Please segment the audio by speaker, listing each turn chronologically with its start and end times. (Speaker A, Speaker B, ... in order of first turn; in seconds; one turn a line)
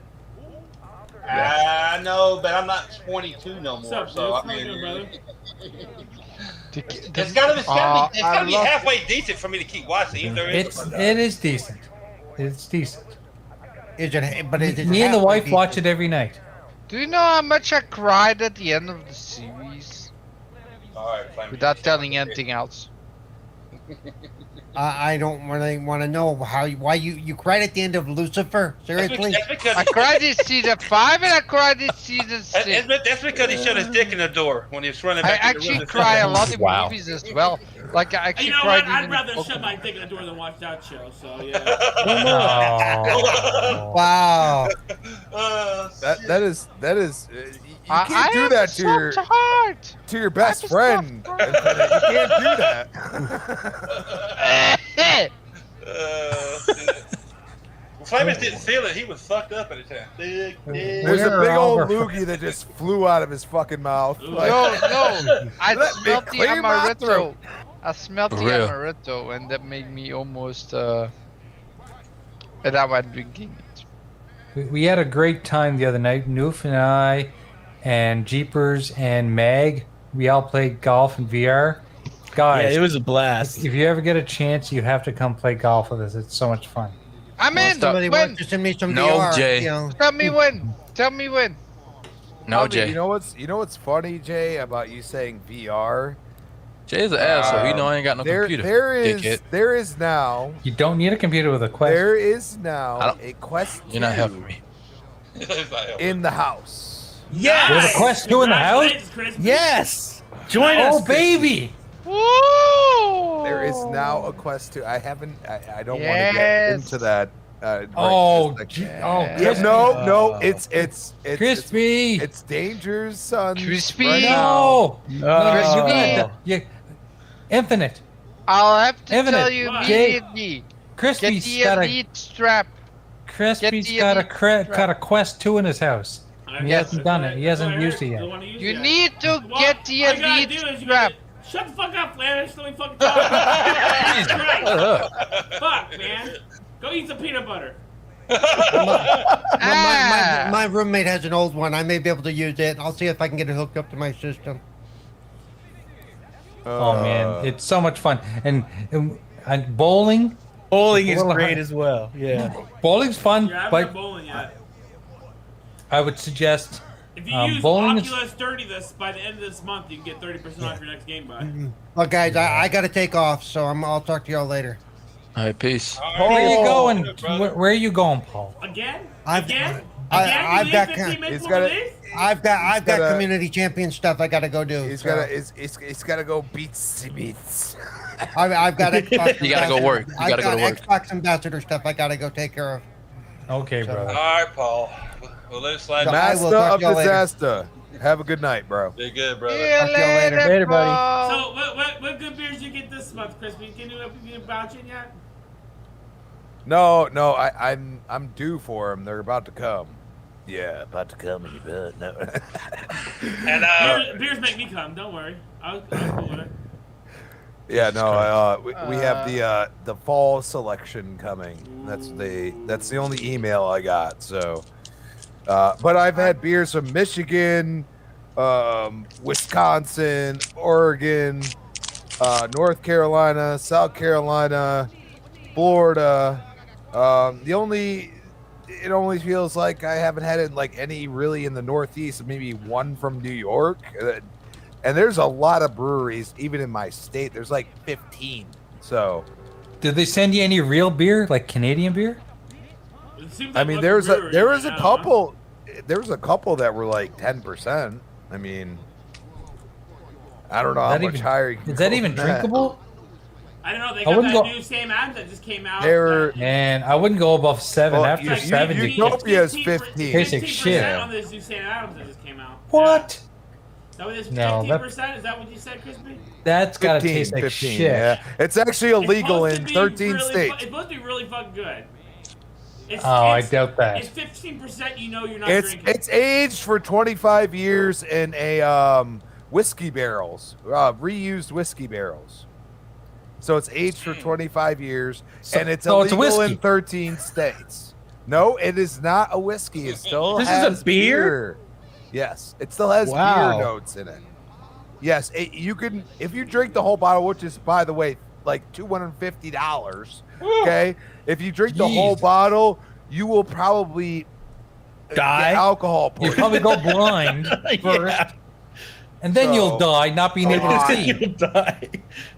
Speaker A: 1.2-5.1
Speaker B: 3.8-5.1
Speaker C: 6.7-8.9
Speaker A: 7.1-11.2
Speaker D: 10.2-11.9
Speaker D: 12.4-13.1
Speaker E: 14.0-15.8
Speaker D: 14.6-16.4
Speaker C: 16.9-20.1
Speaker A: 20.9-22.4
Speaker C: 21.5-22.9
Speaker E: 24.8-29.5
Speaker A: 29.0-30.3
Speaker C: 29.8-32.9
Speaker A: 32.5-36.5
Speaker C: 35.2-39.8
Speaker F: 36.6-36.9
Speaker B: 38.4-41.8
Speaker A: 41.7-43.9
Speaker D: 42.0-44.0
Speaker E: 43.9-44.7
Speaker A: 45.3-46.4
Speaker G: 46.0-49.2
Speaker C: 47.9-51.8
Speaker G: 50.1-54.0
Speaker A: 51.4-52.8
Speaker A: 53.9-54.6
Speaker C: 54.4-55.3
Speaker A: 55.8-57.0
Speaker A: 58.0-61.3
Speaker E: 60.8-61.0
Speaker D: 61.0-62.1
Speaker G: 61.0-65.0
Speaker A: 62.2-62.6
Speaker B: 64.2-64.7
Speaker C: 64.4-71.1
Speaker A: 64.7-65.5
Speaker G: 65.7-67.3
Speaker H: 68.3-68.7
Speaker C: 72.6-73.8
Speaker D: 74.6-81.8
Speaker D: 82.3-87.0
Speaker F: 82.5-83.7
Speaker C: 87.4-88.4
Speaker E: 87.5-90.0
Speaker H: 87.6-88.0
Speaker H: 88.9-89.8
Speaker C: 90.0-91.6
Speaker H: 92.5-93.0
Speaker G: 92.5-96.2
Speaker H: 96.9-99.4
Speaker G: 97.2-100.6
Speaker C: 97.2-97.8
Speaker D: 100.6-102.1
Speaker G: 101.8-104.5
Speaker H: 103.8-104.6
Speaker A: 105.4-106.2
Speaker G: 106.0-107.3
Speaker F: 107.3-108.1
Speaker B: 107.3-109.7
Speaker D: 107.7-109.0
Speaker F: 109.4-111.5
Speaker B: 110.5-111.0
Speaker D: 110.7-111.8
Speaker C: 112.0-114.4
Speaker G: 113.4-124.9
Speaker C: 115.9-117.0
Speaker D: 118.0-120.1
Speaker C: 118.7-120.0
Speaker F: 119.4-120.7
Speaker D: 121.3-122.3
Speaker C: 123.6-124.6
Speaker D: 124.0-126.7
Speaker F: 125.1-126.3
Speaker C: 125.4-126.3
Speaker G: 125.8-126.2
Speaker D: 127.5-128.0
Speaker C: 128.5-130.7
Speaker D: 129.1-130.2
Speaker B: 129.6-130.1
Speaker D: 131.0-132.0
Speaker C: 131.2-132.8
Speaker D: 133.3-138.3
Speaker C: 133.6-134.9
Speaker B: 136.5-144.9
Speaker C: 136.6-137.0
Speaker C: 138.6-141.1
Speaker A: 143.2-144.2
Speaker H: 144.2-145.1
Speaker A: 145.2-146.0
Speaker B: 145.6-147.8
Speaker A: 148.3-149.3
Speaker E: 148.7-154.6
Speaker C: 149.6-150.6
Speaker G: 156.7-157.6
Speaker D: 156.8-160.4
Speaker F: 160.7-162.6
Speaker D: 160.9-161.6
Speaker D: 162.3-163.9
Speaker B: 163.4-164.5
Speaker D: 165.9-168.2
Speaker B: 167.2-171.5
Speaker E: 171.4-174.8
Speaker D: 172.3-172.7
Speaker H: 175.3-176.0
Speaker A: 176.0-177.5
Speaker D: 176.2-178.6
Speaker F: 176.2-176.9
Speaker B: 178.6-182.0
Speaker E: 179.3-181.2
Speaker G: 181.3-183.3
Speaker E: 182.1-185.3
Speaker G: 184.8-188.3
Speaker E: 188.3-192.8
Speaker F: 188.9-189.6
Speaker H: 189.3-190.8
Speaker D: 193.5-194.2
Speaker E: 193.8-194.2
Speaker A: 194.1-196.2
Speaker E: 196.0-197.2
Speaker G: 196.0-198.9
Speaker A: 199.0-199.8
Speaker C: 199.5-201.5
Speaker E: 199.8-200.6
Speaker F: 200.4-201.0
Speaker B: 201.2-205.2
Speaker G: 206.7-214.1
Speaker A: 213.4-214.1
Speaker B: 213.8-216.5
Speaker G: 217.7-224.7
Speaker H: 217.7-218.3
Speaker C: 218.7-219.4
Speaker B: 221.6-223.3
Speaker G: 225.5-231.6
Speaker G: 232.2-234.9
Speaker G: 235.5-244.3
Speaker G: 244.8-249.3
Speaker D: 249.8-252.2
Speaker B: 253.2-255.1
Speaker G: 253.5-258.8
Speaker G: 260.5-262.6
Speaker D: 260.8-262.8
Speaker B: 263.6-266.5
Speaker D: 264.1-264.5
Speaker G: 265.8-266.4
Speaker D: 266.4-269.2
Speaker G: 267.9-271.1
Speaker B: 268.2-273.1
Speaker D: 270.1-271.0
Speaker D: 272.7-273.2
Speaker B: 274.0-276.2
Speaker D: 274.3-274.8
Speaker D: 276.4-278.2
Speaker G: 276.8-280.6
Speaker B: 279.0-281.9
Speaker B: 282.9-286.0
Speaker D: 283.0-284.1
Speaker G: 285.4-292.4
Speaker G: 293.4-301.6
Speaker A: 294.0-294.4
Speaker D: 295.5-296.6
Speaker A: 299.8-300.4
Speaker F: 300.4-301.4
Speaker G: 302.1-304.2
Speaker F: 303.0-303.7
Speaker G: 305.0-314.3
Speaker A: 310.5-310.8
Speaker F: 311.8-312.1
Speaker G: 315.1-316.8
Speaker F: 315.1-315.7
Speaker D: 316.2-318.2
Speaker F: 316.2-318.3
Speaker D: 319.2-321.2
Speaker G: 319.3-319.9
Speaker F: 320.4-322.1
Speaker G: 320.5-321.0